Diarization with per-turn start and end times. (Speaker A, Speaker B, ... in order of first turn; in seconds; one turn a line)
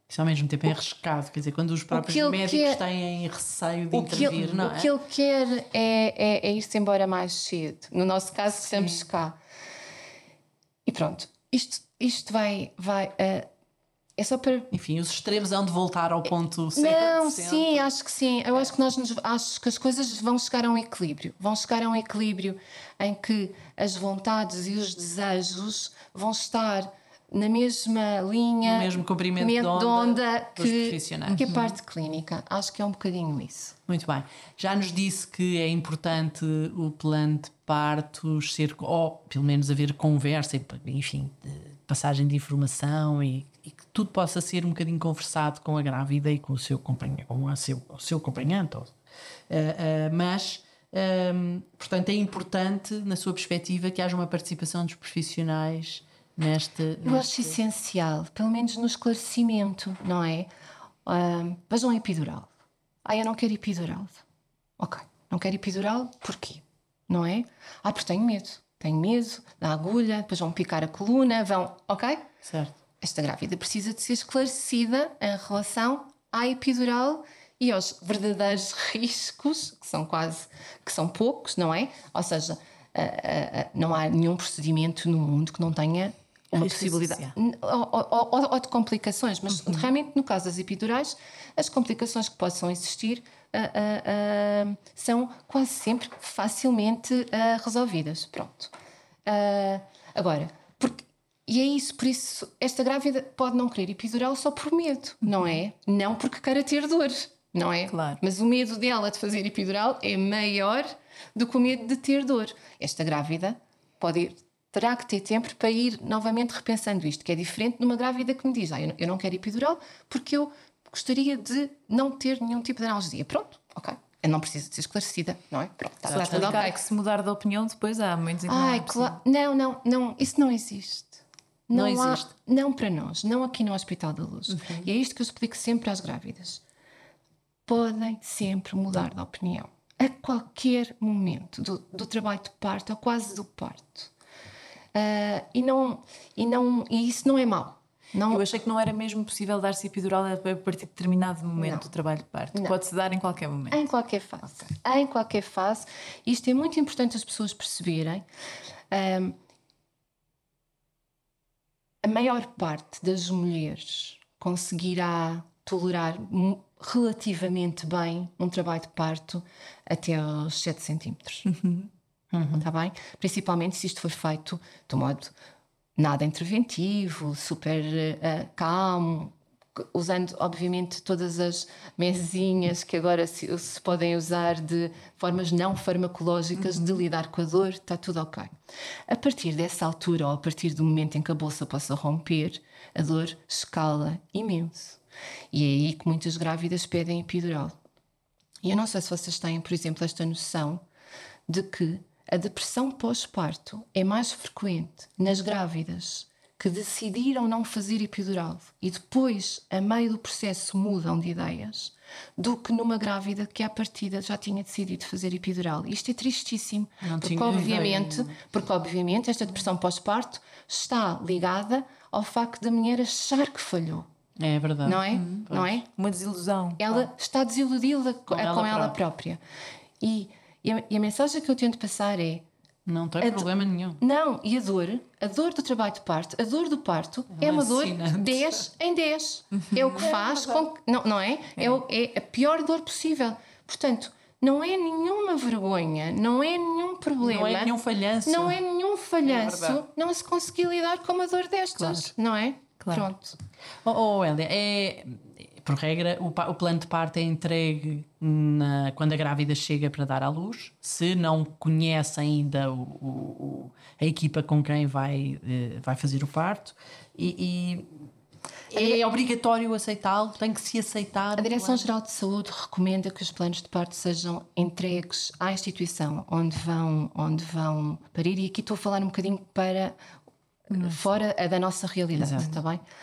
Speaker A: 0.1-4.9
Speaker B: 1.9-2.8
Speaker B: 3.9-9.4
Speaker B: 10.9-13.5
Speaker B: 14.2-14.7
Speaker A: 14.7-17.9
Speaker B: 16.7-33.8
Speaker A: 28.6-31.5
Speaker A: 33.9-48.9
Speaker A: 49.5-57.6
Speaker B: 57.0-60.5
Speaker B: 61.1-62.5
Speaker B: 63.0-64.2
Speaker B: 64.8-72.3
Speaker A: 72.5-72.8
Speaker B: 73.0-98.7
Speaker C: 86.6-87.3
Speaker B: 99.3-126.8
Speaker C: 107.9-108.2
Speaker C: 126.1-129.2
Speaker A: 126.1-126.6
Speaker B: 128.5-136.6
Speaker A: 131.7-132.3
Speaker B: 137.7-144.1
Speaker B: 144.9-148.5
Speaker C: 148.3-153.8
Speaker B: 151.6-151.9
Speaker B: 153.7-158.2
Speaker B: 158.9-159.4
Speaker B: 162.0-171.5
Speaker C: 171.5-171.9
Speaker A: 172.3-172.7
Speaker B: 172.5-175.3
Speaker B: 176.0-188.5
Speaker B: 189.1-195.0
Speaker B: 195.5-197.8
Speaker B: 198.6-200.8
Speaker B: 201.5-224.1
Speaker A: 217.0-218.4
Speaker A: 224.4-225.8
Speaker B: 224.8-225.9
Speaker C: 225.1-227.1
Speaker B: 226.8-229.4
Speaker A: 228.3-229.0
Speaker B: 230.0-232.5
Speaker A: 232.9-234.0
Speaker B: 233.2-253.4
Speaker A: 237.3-238.6
Speaker A: 247.2-248.6
Speaker A: 249.3-249.8
Speaker A: 253.8-267.9
Speaker A: 268.7-271.9
Speaker B: 268.7-269.0
Speaker B: 271.4-280.0
Speaker B: 280.7-282.8
Speaker A: 282.2-282.5